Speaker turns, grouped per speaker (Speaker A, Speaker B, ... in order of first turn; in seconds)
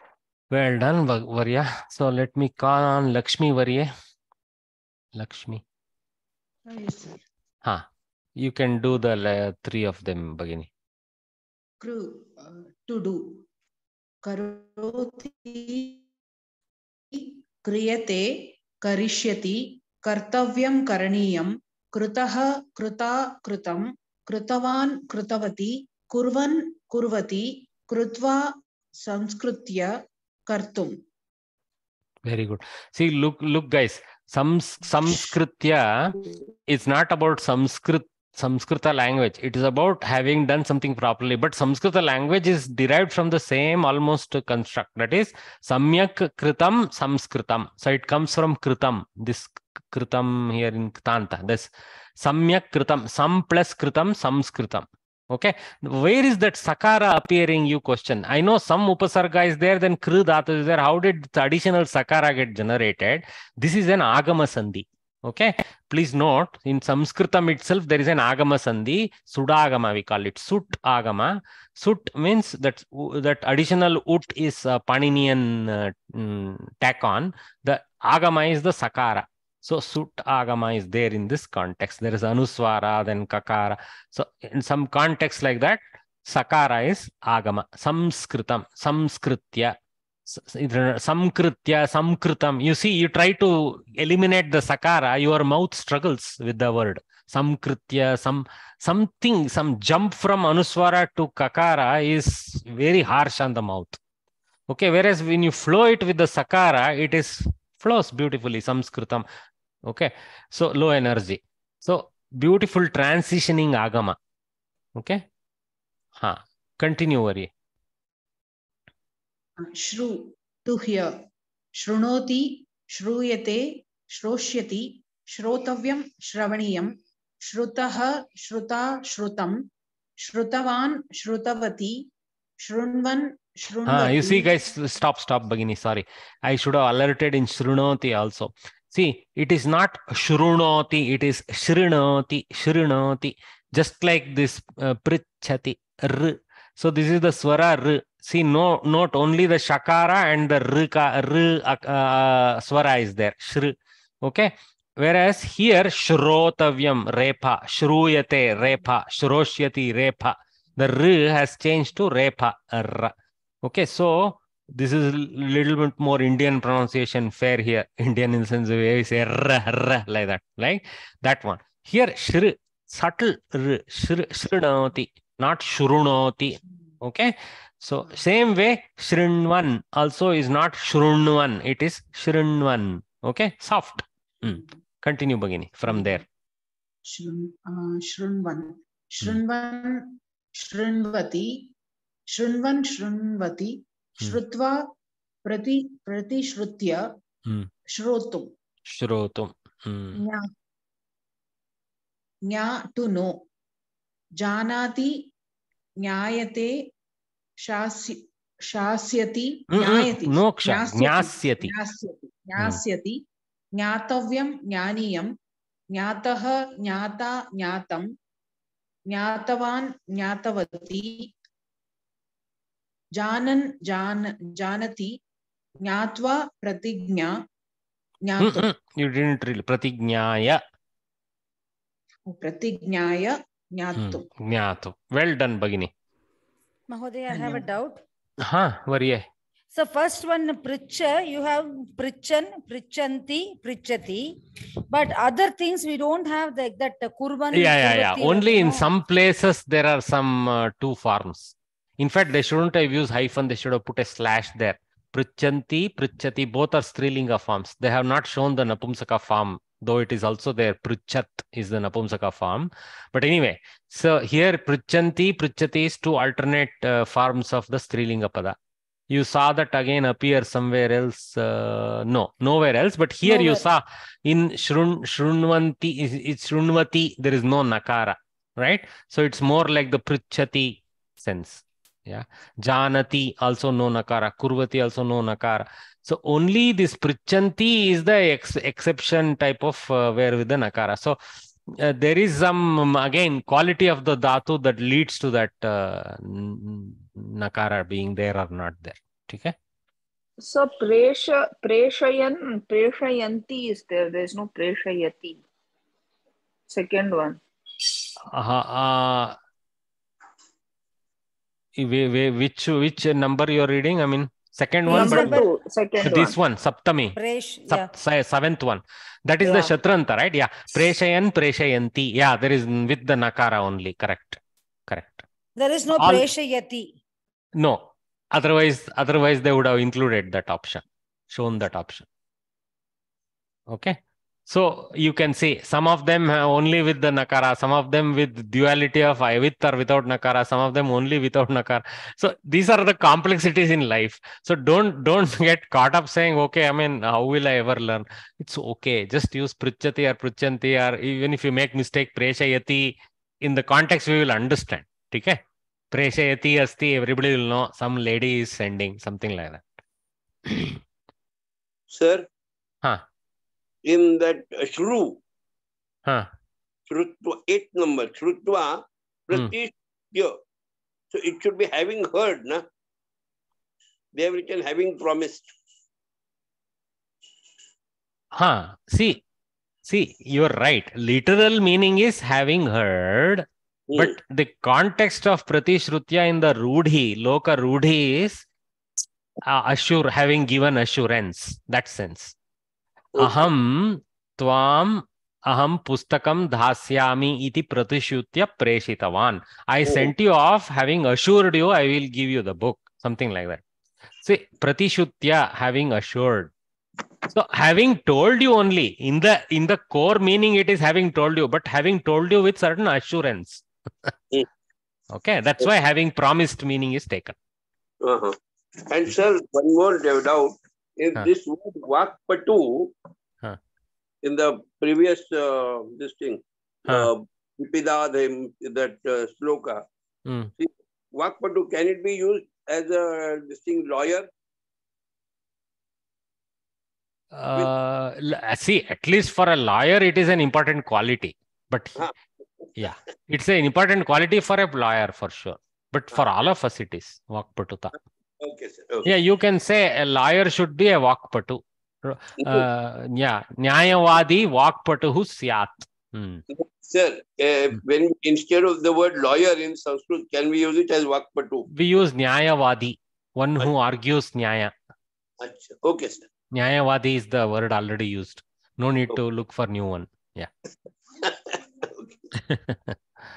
Speaker A: 0.5-3.9, 5.2-5.6, 8.4-10.7, 32.3-89.7, 90.3-104.0, 104.7-109.2, 109.9-114.2, 115.0-115.2, 116.2-117.5, 133.9-186.2, 198.9-200.2, 209.7-211.8, 228.4-230.6, 234.0-235.9, 238.4-239.3, 247.5-268.6, 269.1-299.5, 308.3-309.4, 311.8-315.4, 316.0-317.2, 317.7-325.2, 326.0-326.3, 328.3-332.1, 333.7-334.0, 334.5-355.4, 355.9-359.6, 360.5-360.8, 378.4-379.2, 379.9-383.5, 384.0-388.4, 389.5-392.3, 393.2-403.6, 404.2-406.5, 407.3-414.1, 415.1-417.4, 437.3-442.0, 442.8-447.9, 449.1-456.4, 461.7-464.7, 466.6-470.5, 472.4-472.9
Speaker B: 6.7-7.1, 11.8-13.4, 14.2-16.0, 17.1-30.0, 30.5-30.9, 119.6-121.2, 121.8-129.6, 130.2-132.0, 132.6-134.5, 185.9-186.2, 187.1-191.5, 192.3-194.8, 195.5-197.0, 197.9-198.5, 202.5-203.3, 204.4-205.2, 206.0-206.8, 207.6-213.2, 213.8-215.3, 215.9-218.1, 219.1-221.3, 223.2-225.1, 225.8-227.4, 228.2-228.7, 232.3-234.3
Speaker C: 236.9-238.0, 239.7-248.8, 273.2-273.6, 314.9-315.5, 317.2-317.9, 325.6-326.9
Speaker D: 300.4-305.4, 306.7-307.4, 314.9-316.4
Speaker E: 361.9-362.3, 363.9-365.2, 366.9-370.4, 371.1-372.6, 374.1-375.5, 383.9-384.2, 393.2-393.5, 399.9-400.1, 418.0-418.4, 418.9-422.9, 424.2-429.8, 430.6-434.3, 448.4-449.1, 456.5-461.7, 465.4-466.3, 471.2-472.1